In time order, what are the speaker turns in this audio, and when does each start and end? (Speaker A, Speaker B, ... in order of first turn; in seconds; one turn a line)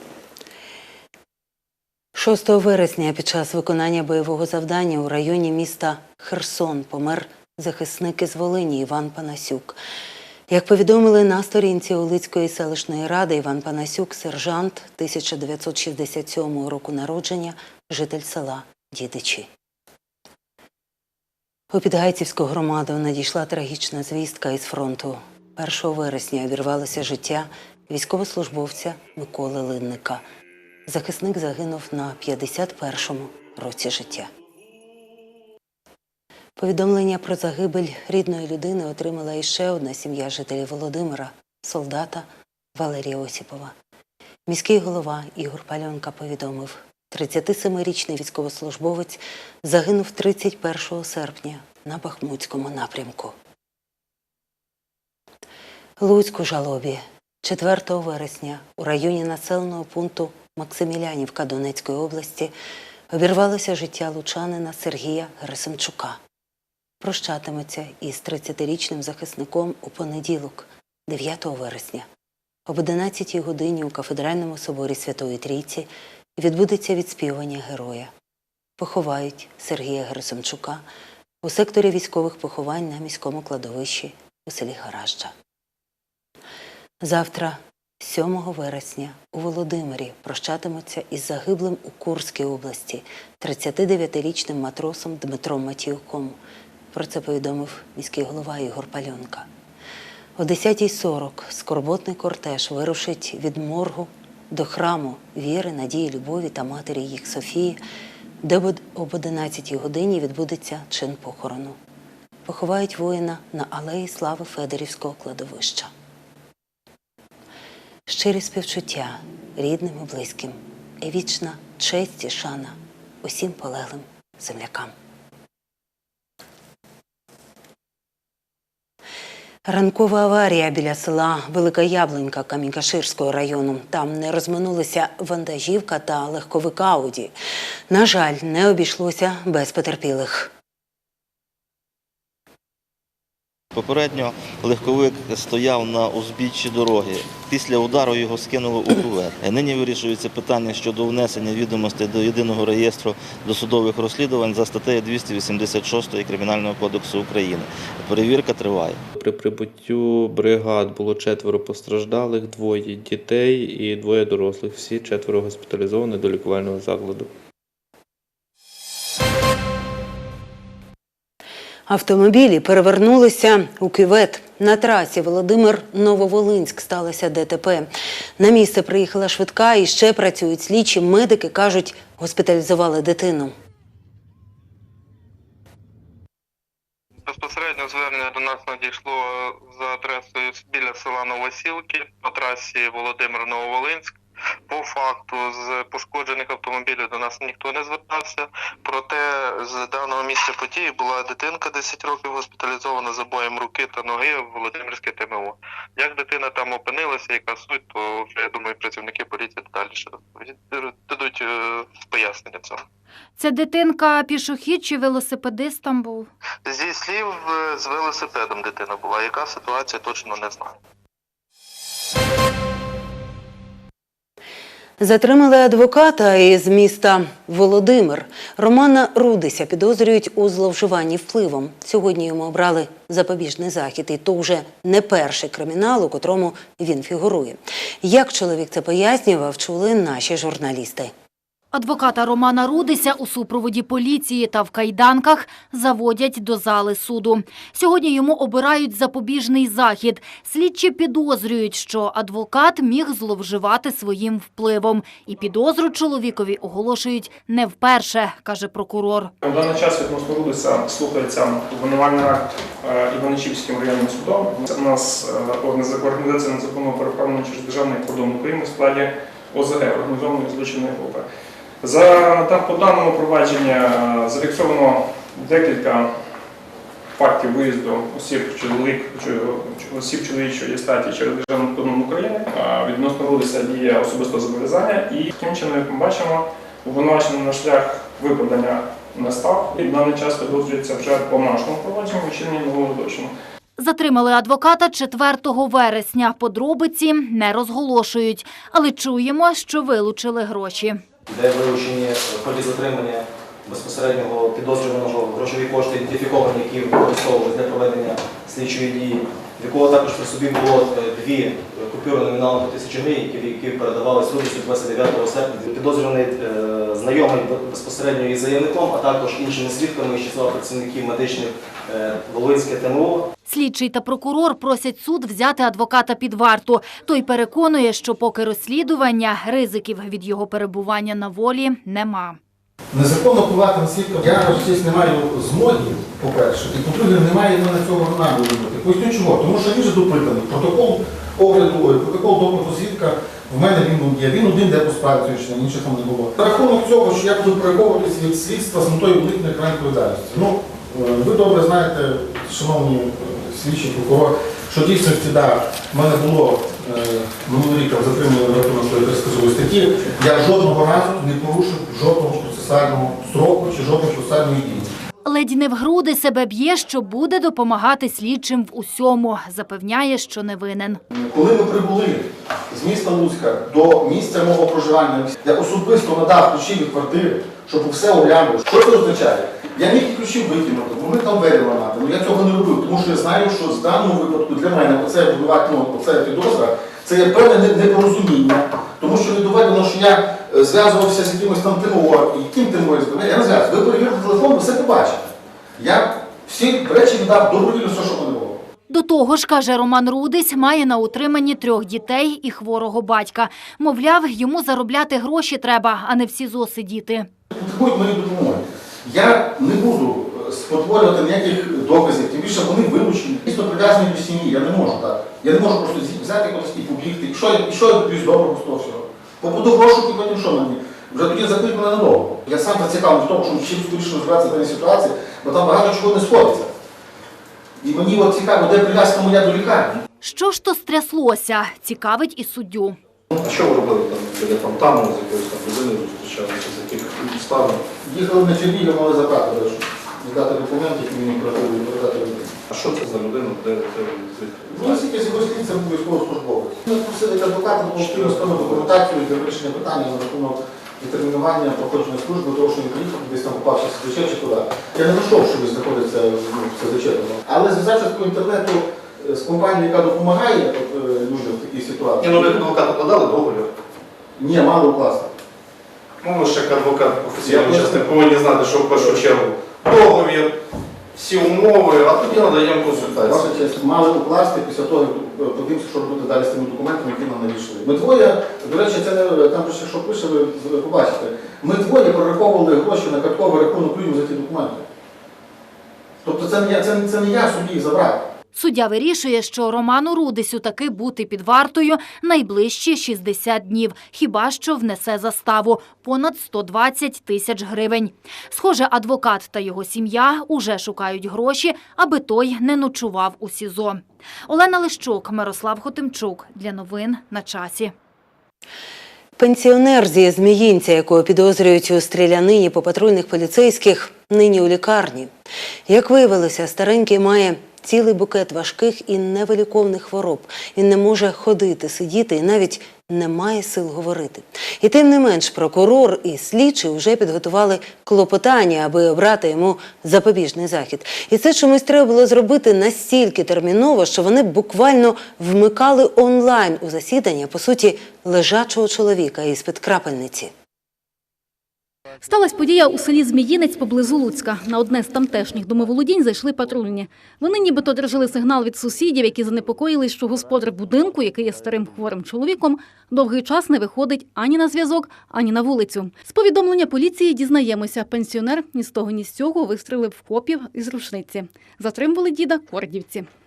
Speaker A: 2.1-9.8
Speaker A: 10.5-19.5
Speaker A: 21.7-30.2
Speaker A: 30.9-34.3
Speaker A: 36.6-43.7
Speaker A: 44.5-53.3
Speaker A: 56.0-62.5
Speaker A: 63.1-66.2
Speaker A: 67.0-72.1
Speaker A: 72.7-78.1
Speaker A: 78.8-80.8
Speaker A: 81.4-85.3
Speaker A: 87.0-96.4
Speaker A: 96.9-99.5
Speaker A: 100.4-107.8
Speaker A: 108.4-111.8
Speaker A: 112.5-115.9
Speaker A: 118.1-124.9
Speaker A: 129.6-137.3
Speaker A: 137.9-140.5
Speaker B: 143.7-159.0
Speaker C: 159.2-167.2
Speaker A: 171.9-183.5
Speaker D: 187.3-194.1
Speaker D: 194.7-212.8
Speaker E: 213.4-216.3
Speaker D: 216.7-220.7
Speaker A: 225.0-241.1
Speaker E: 241.7-259.3
Speaker F: 259.4-271.2
Speaker F: 271.8-276.1
Speaker F: 277.1-293.3
Speaker E: 293.8-301.0
Speaker G: 301.3-323.3
Speaker E: 323.4-332.4
Speaker H: 332.9-364.9
Speaker E: 365.2-371.0
Speaker H: 371.1-398.6
Speaker E: 398.9-407.3
Speaker H: 407.5-426.7
Speaker H: 427.8-429.9
Speaker E: 430.2-433.0
Speaker I: 433.3-437.9
Speaker H: 438.0-442.5
Speaker I: 442.7-445.3
Speaker H: 444.7-462.7
Speaker I: 447.9-448.9
Speaker I: 462.2-463.7
Speaker H: 464.4-465.3
Speaker I: 466.2-470.5
Speaker H: 467.4-468.1
Speaker I: 471.1-473.6
Speaker H: 473.2-484.8
Speaker H: 486.2-488.2
Speaker E: 488.5-507.9
Speaker A: 509.4-515.3
Speaker A: 515.9-540.5
Speaker J: 542.2-563.3